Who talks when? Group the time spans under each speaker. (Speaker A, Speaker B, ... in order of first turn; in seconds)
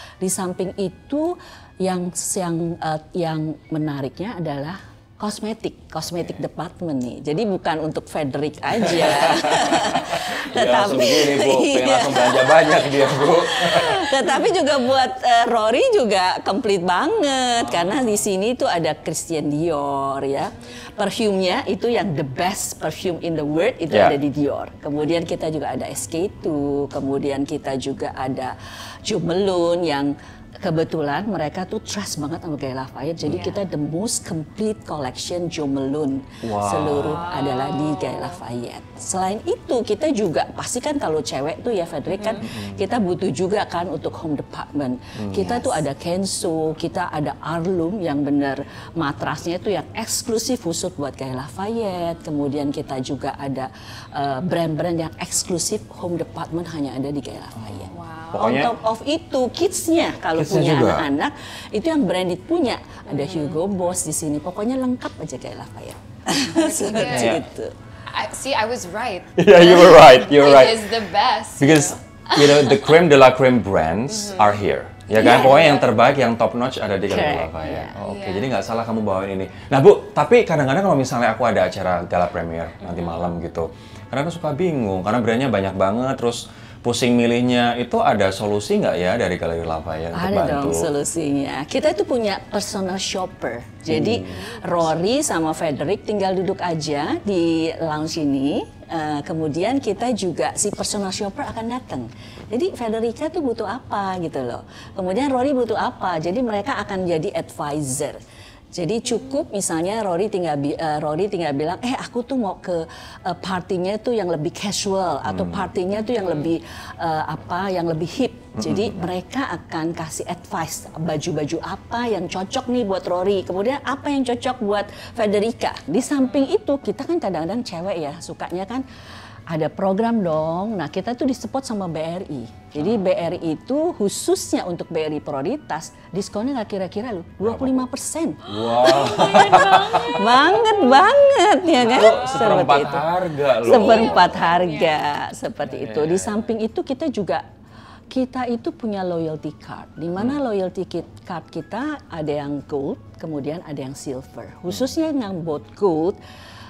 Speaker A: 0.2-67.8, 75.1-75.9, 77.0-78.0, 90.1-108.2, 108.7-128.8, 129.5-147.4, 148.1-156.2
Speaker B: 8.8-14.4, 17.6-18.1, 23.9-24.2, 33.2-33.5, 36.4-37.3, 42.4-42.8, 45.2-45.7, 57.6-58.7, 60.3-61.1, 67.1-67.5, 69.4-70.9, 71.6-90.9, 93.9-94.4, 115.2-115.7, 118.6-118.9, 132.8-133.0, 137.4-137.9, 138.5-140.3, 141.8-144.4, 145.6-146.4
Speaker C: 36.9-38.4, 42.1-42.5, 45.4-45.8, 57.9-58.7, 63.1-63.6, 66.4-67.4, 68.1-73.0, 74.1-74.6, 78.0-78.5, 82.8-83.3, 94.3-95.0, 109.1-109.4, 116.0-116.5, 126.2-126.5, 138.5-141.0, 141.8-142.7, 143.7-145.1